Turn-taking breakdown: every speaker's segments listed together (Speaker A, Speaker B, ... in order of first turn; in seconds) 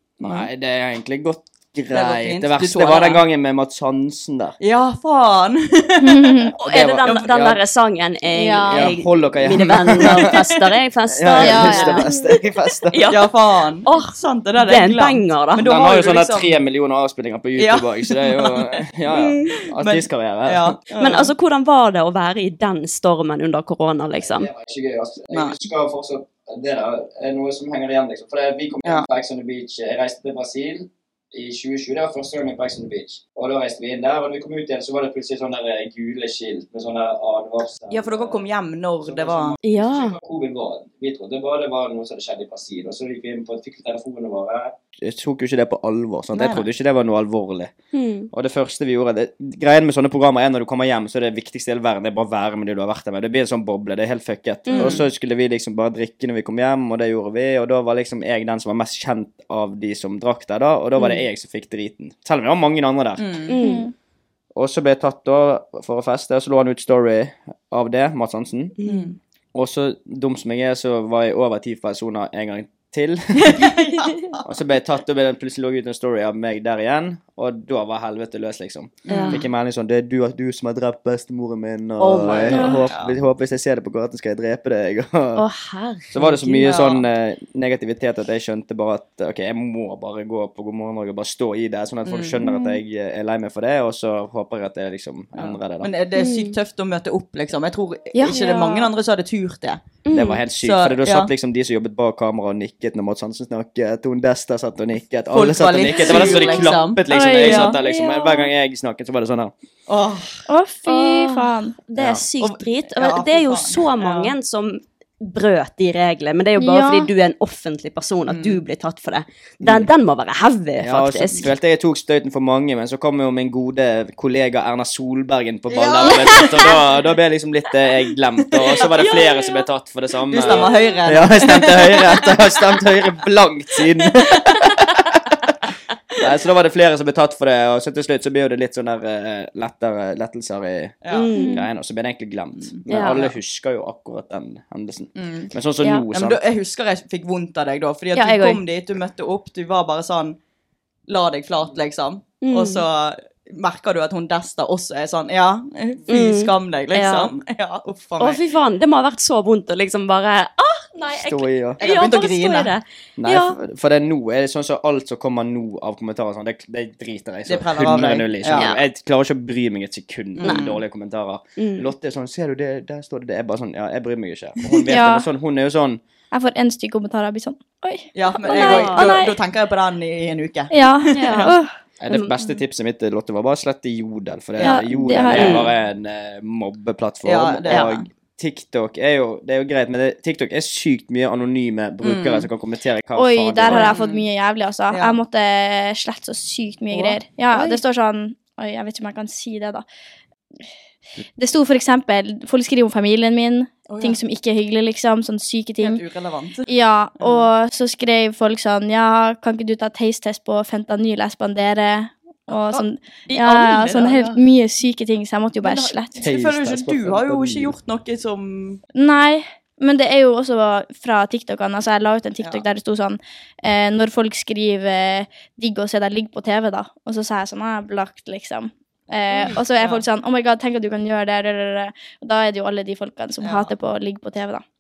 Speaker A: 0.2-4.6, 6.6-7.6, 8.7-10.4, 11.1-13.1, 15.6-20.8, 24.3-38.4, 39.0-47.7, 48.3-63.4, 64.5-68.8, 69.5-73.8, 74.4-85.4, 86.1-95.9, 100.1-109.5, 112.0-112.3, 119.6-119.9, 120.8-135.2, 136.2-146.4, 161.1-161.8, 163.2-176.0, 182.0-193.9, 216.2-217.8
Speaker B: 1.9-3.2, 4.6-6.5, 13.1-16.5, 17.6-18.6, 19.4-21.3, 37.9-39.6, 46.3-46.7, 54.8-55.0, 63.2-63.6, 68.9-69.2, 73.4-74.3, 79.1-79.5, 82.1-83.2, 86.5-87.0, 92.0-92.5, 95.4-101.3, 105.3-107.8, 109.9-110.4, 112.4-114.3, 118.3-118.6, 125.7-126.8, 128.5-129.4, 130.3-132.3, 141.0-141.5, 142.6-143.3, 145.2-145.5, 146.1-150.4, 151.1-158.4, 161.8-162.7, 167.5-168.7, 170.4-170.8, 178.2-181.5, 184.6-185.6, 187.2-188.1, 192.0-192.5, 193.6-194.2, 194.9-195.2, 196.9-197.8, 203.9-204.2, 205.8-207.5, 212.5-214.4, 215.6-218.8, 229.8-230.0, 233.4-233.7
Speaker C: 6.0-6.5, 8.4-8.9, 11.4-12.1, 63.6-63.9, 82.5-82.8, 98.2-98.9, 107.1-108.5, 110.5-111.8, 116.6-117.1, 141.4-141.6, 174.9-175.3, 176.3-179.3, 180.7-181.7, 184.6-185.6, 193.2-199.8, 201.4-206.0, 206.7-216.2, 219.0-234.6
Speaker D: 6.6-12.1, 12.9-13.3, 13.8-15.7, 21.0-24.5, 39.6-40.2, 47.9-48.3, 54.7-55.0, 61.0-61.2, 63.5-63.9, 68.8-69.1, 79.1-79.4, 82.0-82.8, 85.3-86.8, 96.2-96.6, 100.0-100.4, 106.0-106.8, 110.9-121.5, 141.1-141.6, 142.9-143.3, 148.1-148.6, 152.4-152.8, 156.1-157.3, 158.2-163.6, 168.5-168.8, 170.4-170.7, 171.6-171.9, 178.4-179.2, 181.2-181.5, 182.1-182.4, 185.3-185.7